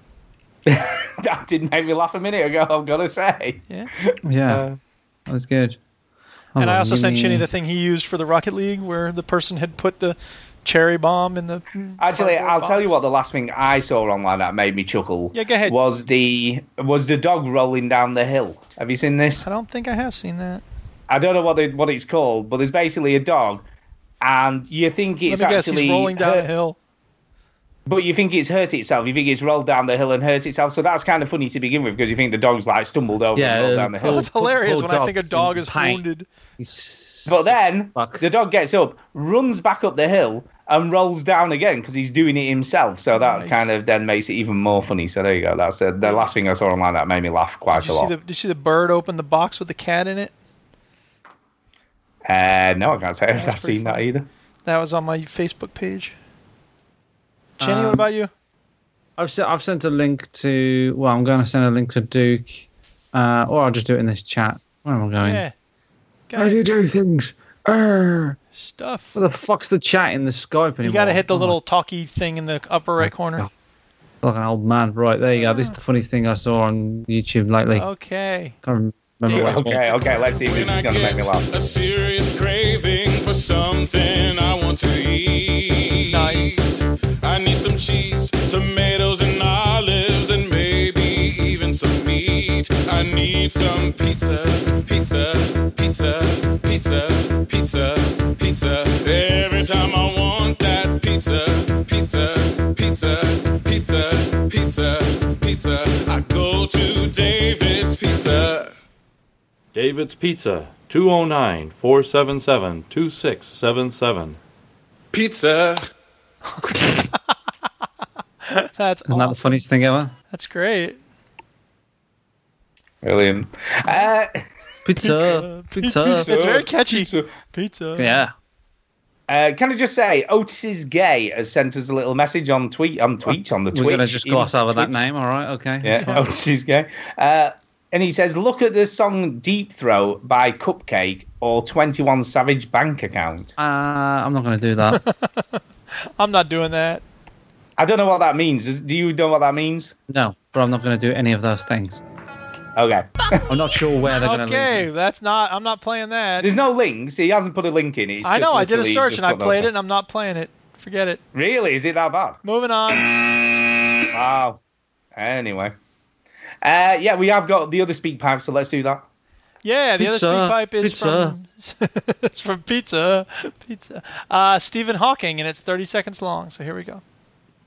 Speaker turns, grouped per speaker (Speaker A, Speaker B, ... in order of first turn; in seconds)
Speaker A: 0.7-4.8, 12.0-19.4, 21.1-23.6, 24.2-26.4, 27.9-34.2, 37.3-48.1, 52.3-54.2, 79.3-81.4, 123.0-124.4, 126.2-127.3, 129.3-135.0, 135.8-143.5, 147.8-149.9, 152.8-153.4, 156.4-159.7, 161.3-162.4, 164.1-164.6, 165.2-165.7, 166.6-169.0
Speaker B: 4.2-4.6, 5.3-5.8, 6.5-7.5, 33.3-36.0, 36.6-38.2, 57.6-58.0, 59.2-65.4, 66.3-68.4, 69.1-71.6, 73.0-73.5, 74.2-77.9, 78.6-79.8, 119.1-120.1, 124.8-126.3, 128.0-128.3, 133.3-136.2, 143.6-145.0, 150.1-152.0, 153.5-154.9, 170.0-171.3
Speaker C: 6.6-13.0, 15.3-15.8, 19.4-20.6, 25.3-26.8, 34.0-36.2, 43.1-43.7, 46.0-46.3, 47.7-50.3, 53.3-54.0, 54.6-56.1, 57.6-58.3, 65.2-65.5, 66.3-66.6, 68.5-69.2, 70.8-73.5, 75.3-75.7, 77.7-78.5, 79.3-80.3, 86.1-86.8, 118.5-119.6, 120.3-121.0, 125.0-128.2, 144.9-145.6, 146.2-147.0, 154.1-156.5, 158.2-161.2, 162.4-163.2, 169.6-177.0
Speaker D: 80.4-108.7, 115.1-115.8
Speaker E: 110.6-111.1, 112.1-114.2